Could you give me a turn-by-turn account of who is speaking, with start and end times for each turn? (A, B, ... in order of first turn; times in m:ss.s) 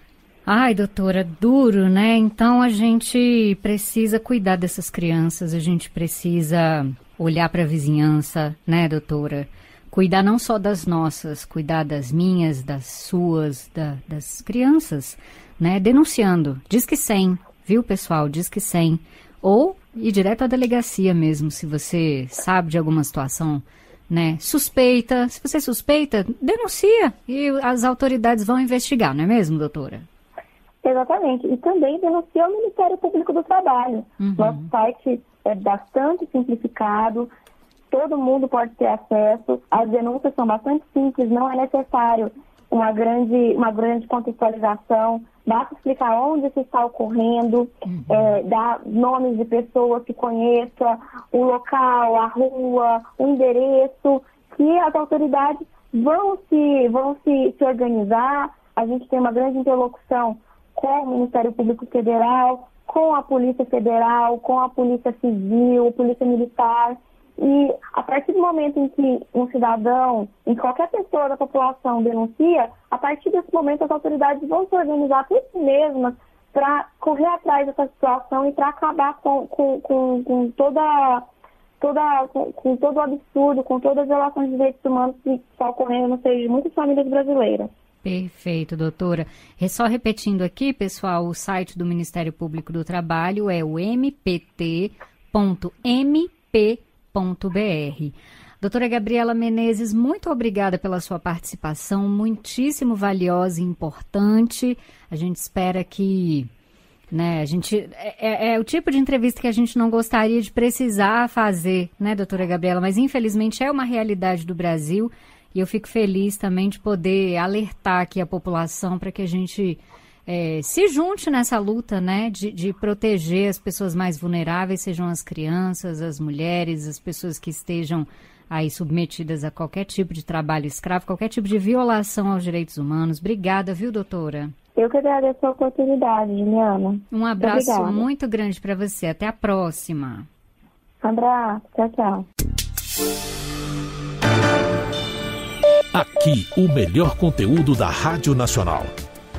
0:00.5-0:30.0 A
0:30.8-0:37.3 B
0:34.2-0:34.7 A
0:37.9-1:21.2 B
0:47.8-0:48.3 A
1:21.8-1:27.7 B
1:28.0-1:46.5 A
1:47.1-2:14.5 A
2:14.8-2:18.0 B
2:17.1-2:20.2 A
2:21.0-2:22.2 B
2:25.9-2:28.9 C